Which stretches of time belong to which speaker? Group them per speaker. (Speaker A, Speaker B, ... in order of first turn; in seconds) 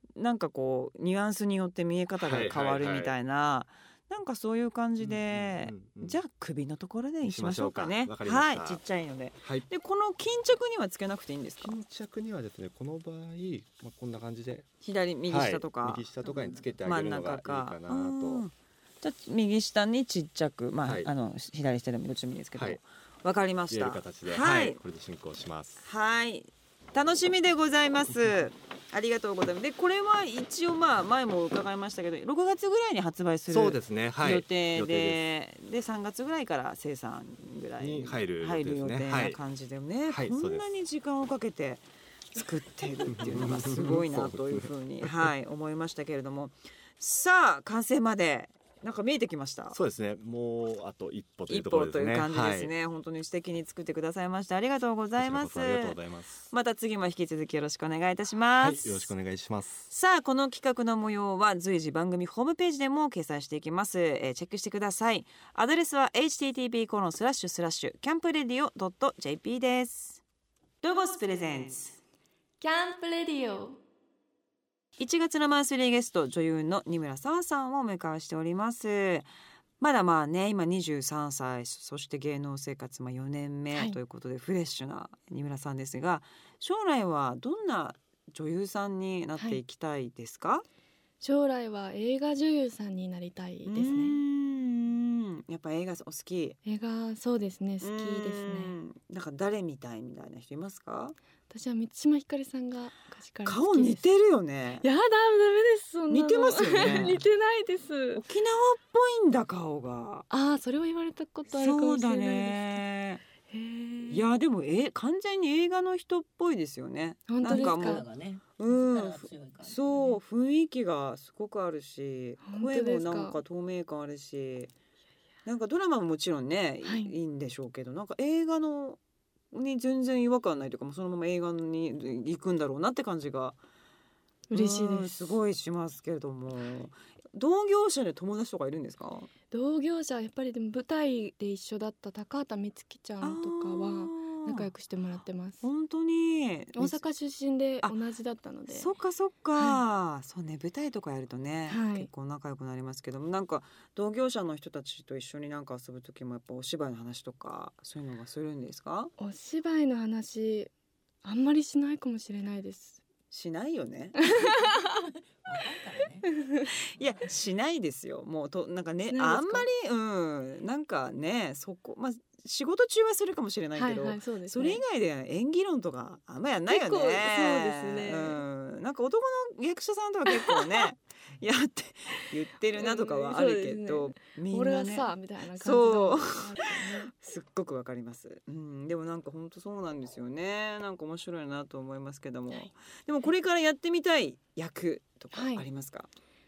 Speaker A: 0.2-11.7, 14.8-24.8, 25.8-49.8, 51.5-56.0, 56.5-59.1, 59.9-70.2, 70.8-72.0, 75.0-79.3, 79.8-90.7, 93.7-96.6, 97.8-101.2, 103.5-104.8, 106.1-107.2, 108.1-110.3, 111.5-113.2, 114.1-118.0, 118.6-124.7, 125.5-129.0, 129.5-133.6, 134.5-139.3, 143.2-144.7, 145.6-147.0, 148.7-159.1, 163.3-164.2, 166.9-196.1
Speaker B: 2.2-3.1, 5.0-6.2, 7.2-8.8, 11.6-14.7, 15.3-18.4, 20.8-21.1, 23.7-25.8, 33.5-35.2, 37.8-39.4, 40.1-40.6, 43.1-45.3, 49.7-52.7, 55.2-56.5, 58.6-59.9
Speaker C: 72.6-73.8, 91.2-94.2, 96.7-98.8, 101.5-104.1, 104.8-108.2, 110.3-112.8, 113.5-114.2, 117.3-118.0, 122.4-123.4, 126.8-127.1, 134.5-135.3, 139.5-145.7, 146.8-148.9, 151.7-152.1, 159.2-160.7, 161.2-163.0, 164.3-164.8, 166.3-166.7, 169.1-169.7, 173.8-174.8, 176.7-178.4, 180.3-180.6, 182.7-187.2, 195.3-195.7
Speaker D: 117.4-120.2, 164.5-166.4